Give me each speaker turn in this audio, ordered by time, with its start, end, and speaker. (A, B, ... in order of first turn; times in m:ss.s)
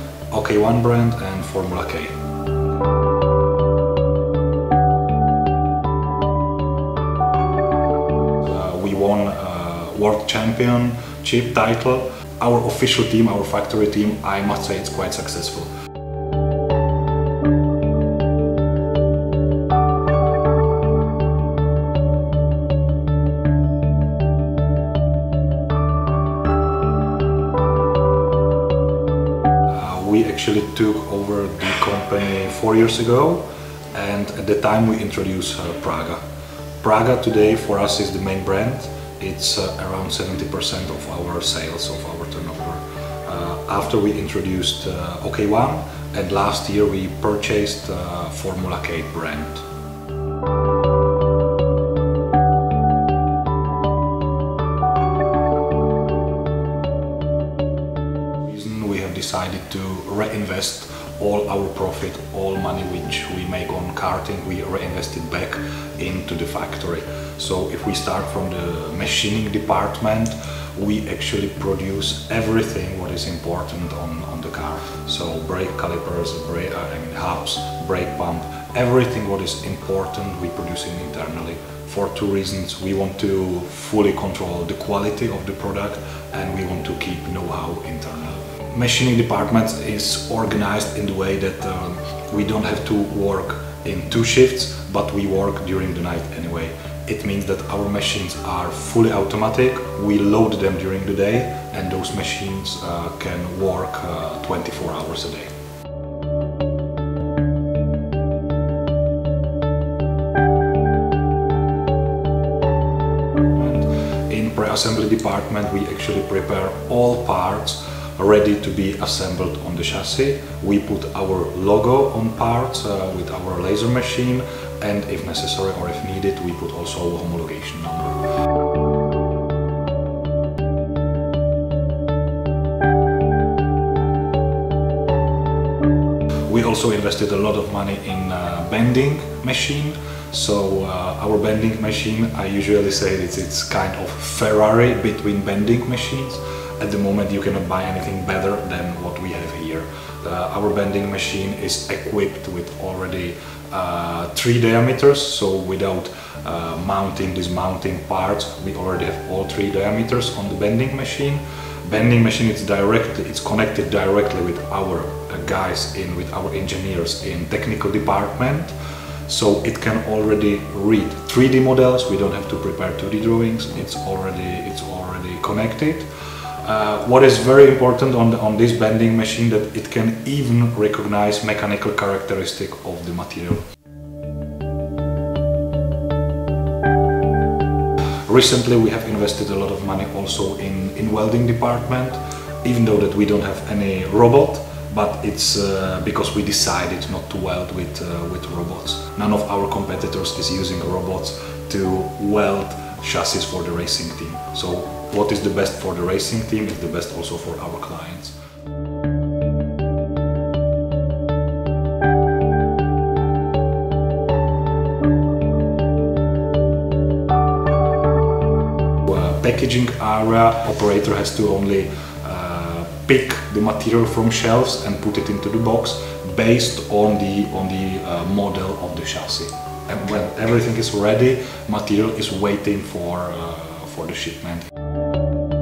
0:00.3-0:02.2 A
0:08.4-0:15.7 A
0:29.7-0:36.2 A
0:36.8-0:49.6 A
0:58.4-1:45.5 A
1:53.5-2:08.2 A
2:16.5-2:48.7 A
2:49.3-2:56.1 A
2:56.6-3:03.6 A
3:08.3-3:28.4 A
3:39.1-3:54.7 A